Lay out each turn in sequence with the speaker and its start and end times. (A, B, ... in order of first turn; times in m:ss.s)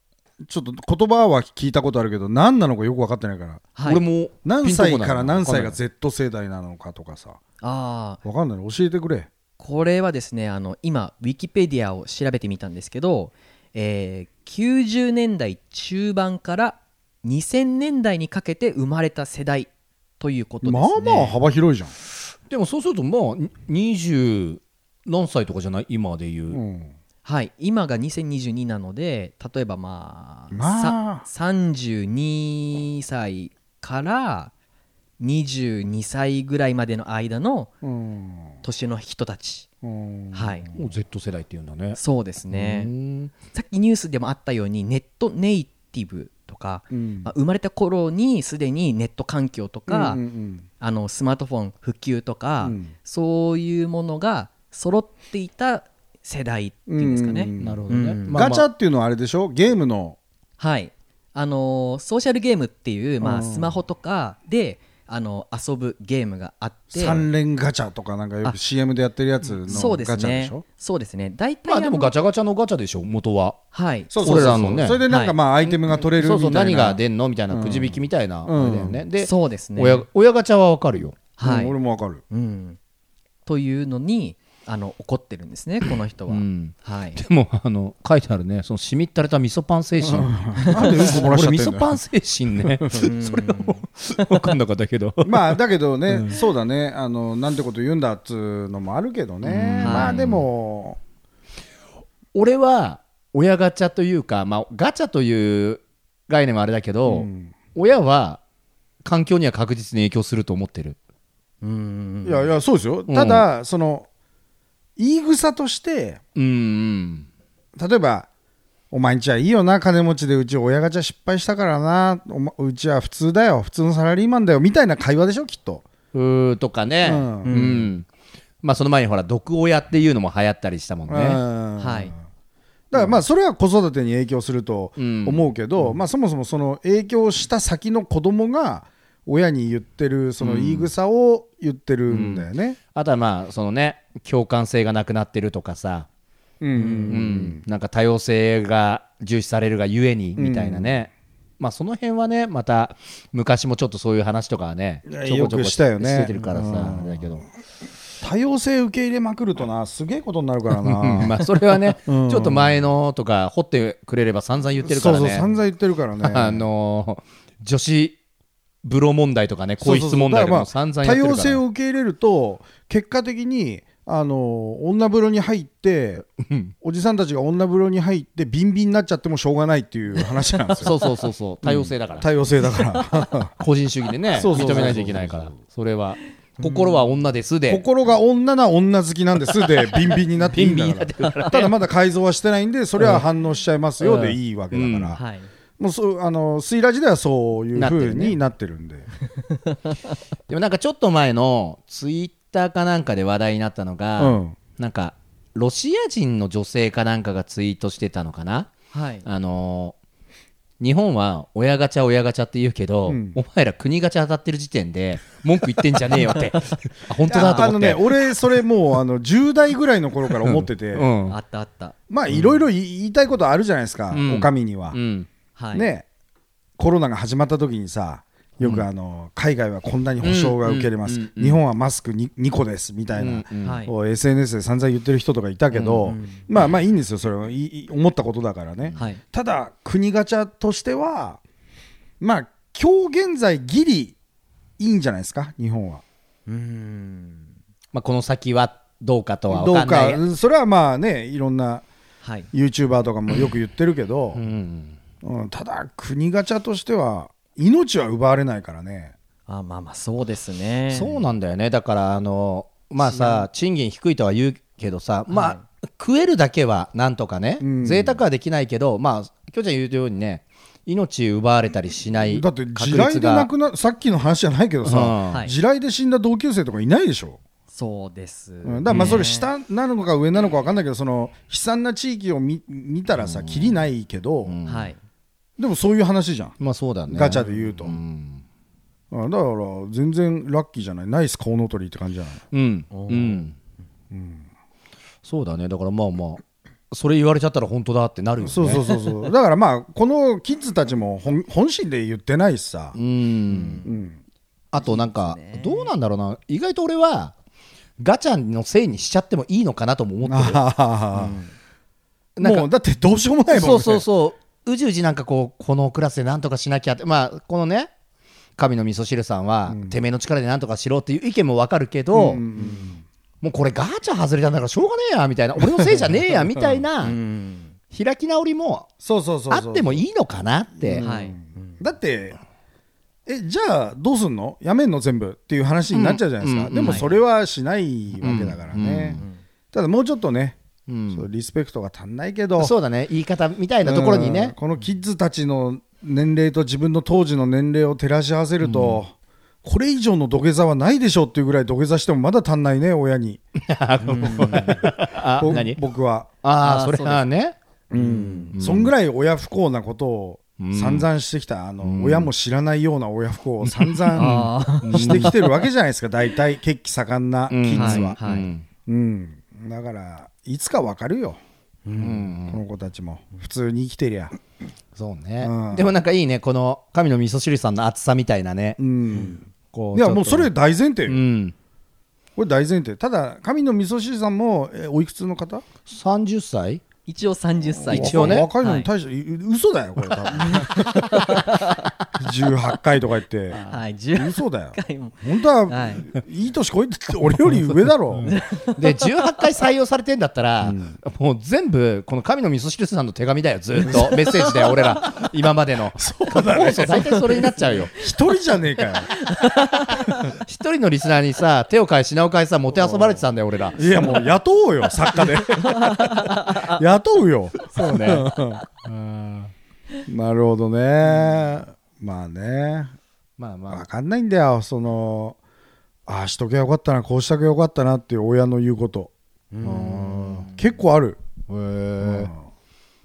0:00.5-0:03.7 A
0:03.8-0:04.0 B
0:03.8-0:05.8 C
0:04.4-0:07.4 A
0:07.6-0:08.2 B
0:08.2-0:09.3 A
0:09.6-0:21.4 B
0:20.6-0:21.9 A
0:22.5-0:26.6 C
0:26.5-0:26.9 A
0:27.2-0:34.5 B
0:30.5-0:31.3 A
0:35.2-0:37.7 B
0:37.8-0:38.6 A
0:38.6-0:39.7 B
0:39.8-0:40.7 A
0:40.3-0:40.7 B
0:40.7-0:42.0 C
0:42.0-0:42.9 B
0:42.5-0:43.3 C
0:43.5-0:50.2 B
0:46.9-0:47.3 A
0:49.9-0:50.6 A
0:50.8-0:58.4 B
0:52.6-0:52.9 A
0:56.9-1:00.2 A
0:57.6-0:58.7 C
1:00.6-1:07.2 B
1:03.2-1:03.8 A
1:06.9-1:10.6 A
1:09.5-1:10.0 C
1:09.7-1:12.1 B
1:11.7-1:13.6 C
1:13.7-1:14.5 B
1:14.1-1:19.0 A
1:14.2-1:15.0 C
1:15.1-1:15.4 B
1:16.0-1:21.2 C
1:19.2-1:20.0 B
1:21.4-1:21.8 B
1:21.4-1:22.2 A
1:22.3-1:22.8 B
1:23.5-1:27.2 B
1:26.3-1:36.4 C
1:30.0-1:32.0 A
1:32.9-1:33.8 B
1:35.2-1:41.0 A
1:39.4-1:40.5 C
1:39.8-1:40.1 B
1:42.3-1:48.4 C
1:47.1-1:47.5 A
1:49.0-1:51.0 C
1:51.6-1:52.5 B
1:52.2-1:54.1 A
1:53.1-1:53.5 C
1:55.0-1:56.2 A
1:56.4-1:57.3 C
1:57.8-1:58.3 A
1:58.9-2:05.9 A
2:06.1-2:08.1 C
2:07.0-2:07.9 A
2:07.4-2:07.8 B
2:08.6-2:11.4 C
2:11.1-2:12.2 A
2:11.8-2:12.1 B
2:12.9-2:22.8 A
2:13.0-2:13.2 C
2:15.0-2:16.0 C
2:20.4-2:20.9 C
2:22.1-2:26.1 C
2:26.6-2:27.6 A
2:26.8-2:27.2 B
2:27.1-2:37.4 C
2:30.4-2:31.0 A
2:35.1-2:37.4 A
2:38.2-2:41.4 A
2:40.8-2:45.6 C
2:42.0-2:42.8 A
2:44.8-2:46.7 A
2:46.2-2:48.2 C
2:48.8-2:51.6 C
2:49.8-2:56.3 A
2:56.4-2:56.7 C
2:56.8-3:01.0 A
3:00.8-3:02.3 C
3:01.6-3:03.5 A
3:03.6-3:07.8 C
3:04.3-3:05.6 A
3:04.5-3:04.9 B
3:06.6-3:07.0 B
3:07.7-3:15.2 A
3:10.5-3:11.8 C
3:13.0-3:13.3 C
3:14.0-3:15.2 C
3:15.2-3:15.5 B
3:15.8-3:19.1 A
3:17.8-3:18.4 C
3:19.6-3:20.1 B
3:20.5-3:28.7 C
3:24.2-3:24.6 A
3:28.9-3:29.2 B
3:29.2-3:30.0 C
3:30.8-3:38.3 C
3:33.1-3:33.4 A
3:37.3-3:41.1 A
3:37.4-3:37.7 B
3:40.4-3:41.4 C
3:41.3-3:42.0 B
3:42.1-3:45.0 A
3:42.3-3:42.6 C
3:44.1-3:45.3 C
3:45.6-3:45.9 B
3:45.7-3:46.1 A
3:46.8-4:01.4 A
3:48.6-3:48.9 C
3:50.2-3:51.6 C
3:53.2-3:53.8 C
3:53.6-3:53.9 B
3:55.7-3:56.2 C
3:56.1-3:56.4 B
4:02.2-4:04.2 A
4:04.8-4:06.0 A
4:06.5-4:07.5 B
4:07.9-4:10.2 C
4:09.5-4:11.9 A
4:12.5-4:14.4 A
4:14.4-4:15.0 C
4:15.2-4:19.2 A
4:19.5-4:21.1 B
4:20.9-4:33.5 C
4:23.0-4:23.4 B
4:25.3-4:25.6 B
4:27.6-4:28.2 A
4:32.3-4:37.4 A
4:34.8-4:35.4 C
4:37.7-4:39.5 B
4:38.6-4:44.6 A
4:38.9-4:39.2 C
4:43.2-4:43.8 C
4:44.4-4:44.9 C
4:44.7-4:45.0 B
4:45.6-4:48.0 A
4:46.6-4:48.4 C
4:49.1-4:52.4 A
4:52.5-4:53.6 C
4:52.9-4:53.4 B
4:54.1-4:54.5 A
4:55.2-4:58.9 C
4:58.4-5:03.0 A
5:03.0-5:03.8 C
5:03.5-5:03.9 B
5:03.8-5:04.2 A
5:04.7-5:07.4 C
5:04.8-5:05.9 B
5:08.0-5:10.6 C
5:10.3-5:11.4 A
5:11.2-5:11.5 B
5:12.4-5:12.7 C
5:12.4-5:14.0 A
5:13.5-5:17.9 C
5:18.6-5:22.4 C
5:19.7-5:20.0 A
5:22.1-5:23.0 A
5:22.6-5:22.9 B
5:23.4-5:27.2 C
5:27.0-5:27.8 B
5:27.9-5:28.9 C
5:29.0-5:30.0 A
5:29.5-5:31.1 C
5:30.8-5:32.4 A
5:31.0-5:31.8 B
5:33.3-5:40.6 A
5:35.9-5:37.2 C
5:38.2-5:39.2 C
5:40.9-5:41.3 C
5:41.1-5:42.7 A
5:42.6-5:44.6 C
5:43.8-5:49.1 A
5:48.6-5:49.0 C
5:49.6-5:53.4 A
5:53.6-5:55.8 C
5:54.0-5:54.8 B
5:54.2-5:56.3 A
5:56.4-5:57.6 C
5:56.6-5:57.2 B
5:57.9-6:08.2 A
5:57.9-5:58.5 B
5:58.5-5:58.9 C
6:00.6-6:01.1 C
6:01.8-6:02.3 C
6:03.6-6:04.3 C
6:04.2-6:05.3 B
6:04.8-6:05.4 C
6:07.5-6:08.7 C
6:07.8-6:08.5 B
6:08.9-6:11.4 A
6:11.9-6:12.1 B
6:12.0-6:14.4 A
6:12.0-6:12.6 C
6:15.0-6:18.8 C
6:15.4-6:16.0 A
6:18.8-6:19.4 A
6:19.7-6:20.5 C
6:19.9-6:21.2 A
6:21.1-6:21.6 C
6:22.4-6:25.6 A
6:25.9-6:26.8 C
6:27.1-6:28.9 B
6:27.8-6:31.4 A
6:27.9-6:28.5 C
6:30.4-6:31.9 B
6:32.2-6:33.6 A
6:33.7-6:36.1 B
6:34.2-6:38.3 A
6:37.5-6:47.9 C
6:38.2-6:39.4 B
6:40.6-6:41.0 A
6:43.8-6:45.1 A
6:46.0-6:49.1 A
6:49.1-6:50.2 B
6:50.3-6:54.3 C
6:52.8-6:53.2 A
6:53.8-6:55.8 A
6:55.6-6:56.8 B
6:56.6-6:58.6 A
6:57.7-6:58.3 C
6:58.8-6:59.5 C
7:00.1-7:02.9 A
7:03.4-7:03.8 C
7:03.7-7:05.4 A
7:06.1-7:09.1 A
7:09.5-7:09.9 B
7:09.6-7:11.2 A
7:09.6-7:10.6 C
7:11.5-7:12.3 C
7:12.0-7:12.4 A